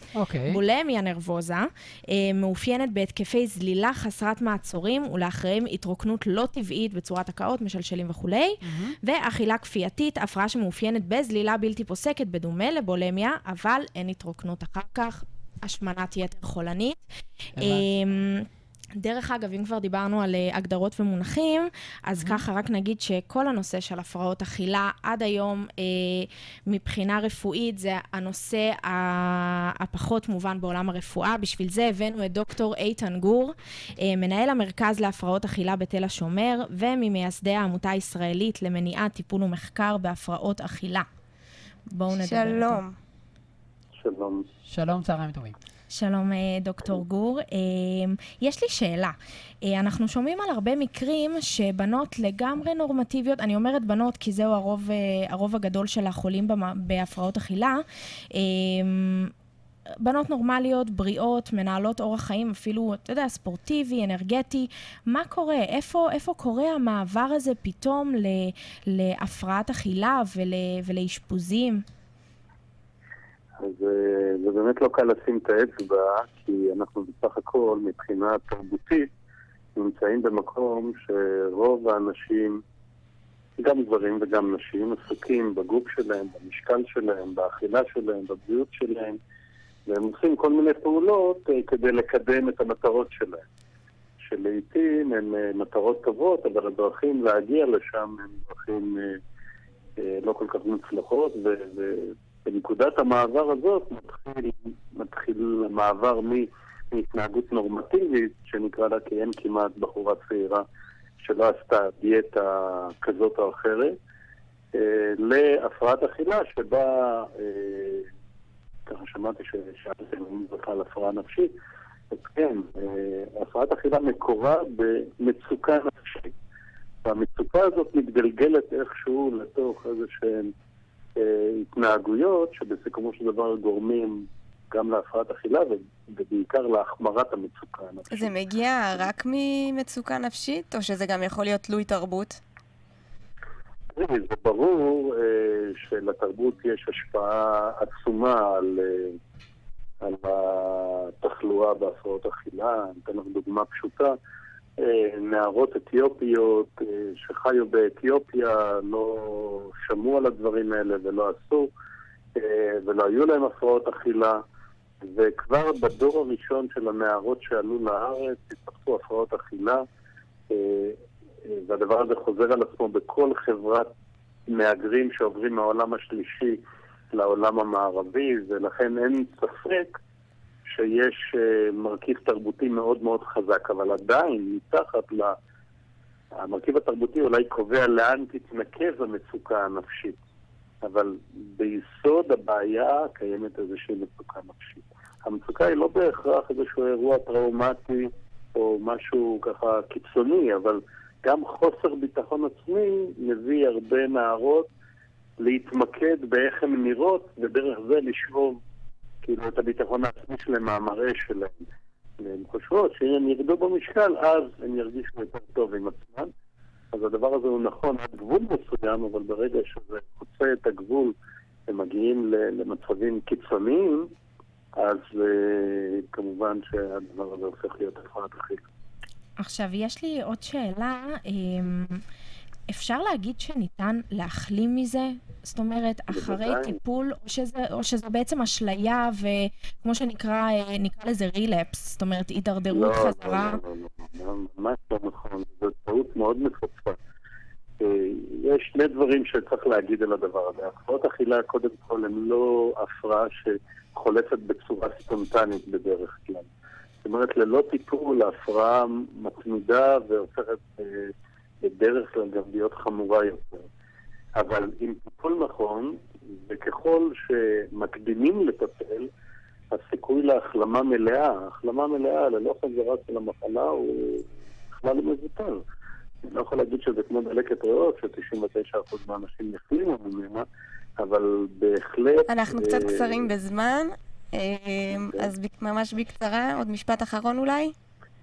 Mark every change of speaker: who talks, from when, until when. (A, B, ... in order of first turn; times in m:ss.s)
0:00.1-0:00.6 A
0:00.5-0:17.0 B
0:08.6-0:08.9 A
0:17.6-0:17.8 A
0:17.6-0:18.5 B
0:19.0-0:41.0 B
0:41.9-0:42.8 B
0:42.1-0:43.0 C
0:44.0-0:44.4 D
0:44.7-0:45.6 A
0:45.9-0:59.3 B
1:00.0-1:11.8 B
1:13.6-1:19.1 D
1:19.8-1:22.6 D
1:23.6-1:29.2 D
1:29.9-1:33.4 D
1:34.2-1:39.2 D
1:40.0-1:50.6 D
1:51.2-1:54.0 D
1:54.7-1:58.1 D
1:58.9-2:01.5 D
2:02.1-2:06.3 D
2:07.0-2:10.5 D
2:11.2-2:18.3 D
2:18.1-2:22.4 C
2:23.9-2:29.2 D
2:30.0-2:34.1 D
2:34.8-2:41.7 D
2:42.4-2:44.4 D
2:45.0-2:49.8 D
2:50.5-2:53.9 D
2:54.5-2:56.6 D
2:57.1-3:00.0 D
3:00.7-3:05.3 D
3:06.4-3:10.2 D
3:10.8-3:24.7 D
3:25.4-3:28.6 D
3:29.2-3:31.6 D
3:32.2-3:36.3 D
3:36.9-3:41.1 D
3:41.7-3:44.1 D
3:44.8-3:48.6 D
3:49.4-3:52.0 B
3:52.7-4:03.6 B
3:56.1-3:56.8 D
4:02.7-4:07.0 D
4:07.8-4:16.5 D
4:17.0-4:21.1 D
4:21.6-4:23.6 D
4:24.4-4:29.1 D
4:29.7-4:35.6 D
4:36.2-4:40.4 D
4:41.0-4:43.2 D
4:42.3-4:47.7 C
4:44.9-4:45.3 D